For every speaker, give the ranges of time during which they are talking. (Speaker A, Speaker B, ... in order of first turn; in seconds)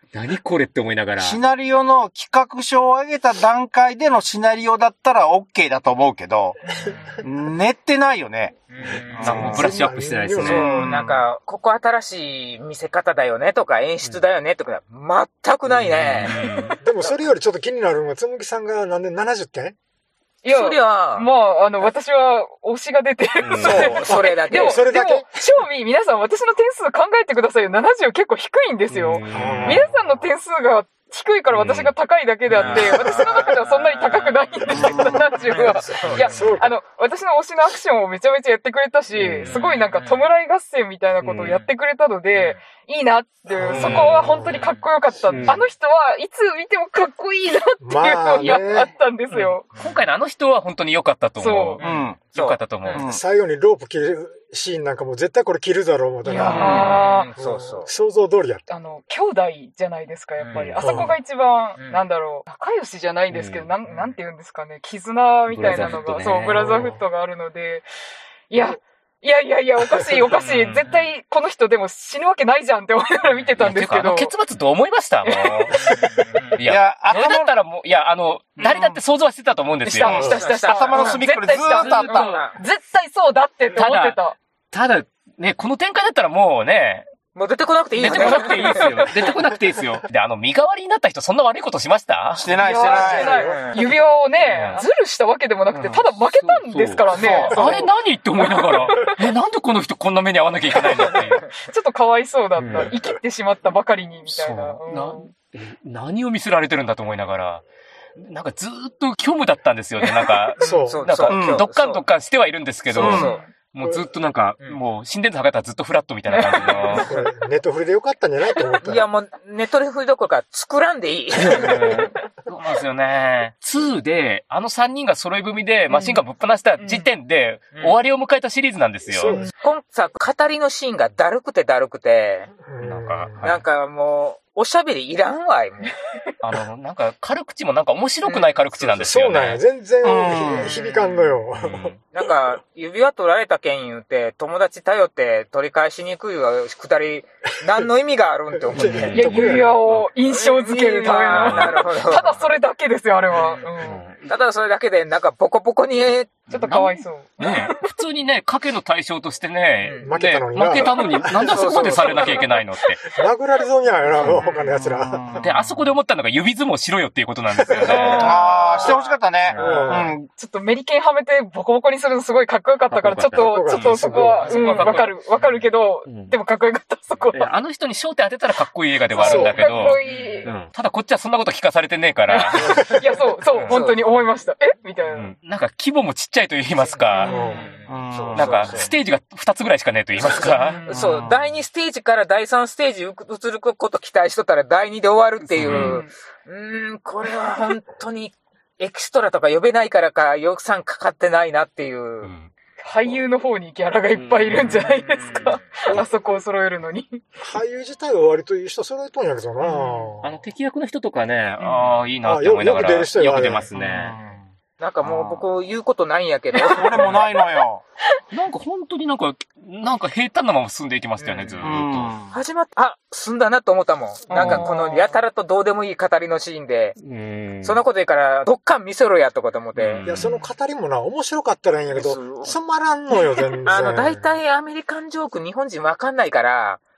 Speaker A: 0.1-1.4, 9.2-10.8, 15.7-16.8, 23.4-24.3, 28.9-29.9, 31.5-31.9, 32.5-33.0, 39.2-39.6, 41.2-41.7, 43.7-44.7, 45.3-45.6, 49.8-53.0, 56.4-57.0, 60.5-61.2, 63.3-63.7, 65.5-66.9, 70.3-70.9, 73.6-75.8, 76.5-80.2, 81.8-82.4, 83.8-84.2, 84.7-87.1, 88.0-92.5, 94.4-94.9, 95.7-101.5, 102.6-103.0, 104.3-107.6, 108.2-117.1, 121.4-129.3, 132.8-133.6, 136.4-139.6, 141.6-142.0, 148.8-150.1, 151.3-151.8, 153.8-154.3, 156.5-163.0, 165.4-168.3, 169.4-170.1, 172.9-175.4, 176.1-176.4, 177.3-182.8, 183.5-183.8, 185.1-187.3, 188.3-190.8, 195.5-196.0, 202.2-202.5, 204.1-204.9, 210.2-214.2, 218.3-222.2, 227.0-227.8, 229.8-230.3
Speaker B: 1.2-6.6, 7.2-8.6, 9.1-9.5, 10.6-11.2, 34.7-35.1, 43.6-44.1, 51.8-52.2, 52.9-53.2, 56.6-57.0, 76.6-77.5, 80.1-82.4, 92.4-93.4, 97.1-97.8, 111.3-111.6, 112.9-113.3, 140.0-140.8, 164.8-165.9, 167.8-170.3, 187.9-188.9, 190.9-191.5, 213.7-214.5, 215.0-215.5, 216.7-217.8, 221.6-222.4
Speaker C: 6.7-7.3, 8.7-9.7, 10.4-16.4, 20.5-21.3, 23.6-24.8, 32.6-34.4, 35.3-36.5, 39.5-40.3, 49.3-50.0, 51.8-52.6, 56.4-57.9, 60.4-60.8, 61.8-62.0, 75.7-76.6, 78.6-79.0, 80.1-82.6, 87.3-89.1, 93.0-93.9, 101.1-101.4, 110.7-112.0, 113.0-113.4, 118.8-122.0, 127.7-128.0, 129.6-132.5, 133.4-135.9, 138.2-138.6, 140.6-141.5, 142.1-149.2, 150.3-152.5, 153.3-153.7, 154.2-156.5, 159.8-160.1, 161.3-162.4, 164.4-164.7, 168.0-169.8, 180.1-180.5, 183.6-184.2, 186.8-188.9, 190.2-202.3, 204.8-205.6, 214.8-217.2, 221.2-221.7, 222.3-227.0, 227.6-230.1, 231.9-232.6, 233.6-236.8
Speaker D: 9.2-10.6, 16.8-19.8, 24.5-25.4, 29.3-29.9, 36.1-36.7, 43.6-44.2, 47.8-48.9, 53.0-56.7, 57.4-58.6, 60.8-61.1, 66.4-67.0, 93.0-93.8, 110.6-111.1, 113.8-114.1, 117.0-119.1, 129.1-129.5, 132.7-133.5, 138.9-141.9, 148.7-149.8, 160.0-161.7, 163.1-165.3, 167.7-167.9, 169.6-170.1, 173.4-174.6, 179.2-179.7, 187.3-187.6, 207.4-210.4, 212.2-213.7, 230.1-234.4
Speaker E: 20.4-49.7, 51.4-51.8, 56.2-57.3, 58.7-67.9, 68.5-74.3, 75.2-76.2, 79.8-84.4, 88.2-89.0, 92.6-97.9, 98.5-99.2, 100.8-105.3, 110.0-110.5, 113.1-113.5, 116.3-117.2, 125.9-126.2, 126.8-127.1, 149.1-154.0, 156.5-157.9, 161.7-162.5, 167.9-169.0, 170.4-177.5, 179.2-180.5, 182.3-185.3, 187.1-187.8, 190.5-191.1, 195.6-196.1, 202.8-207.2, 209.6-210.2, 211.6-212.0, 216.5-217.2, 224.3-225.2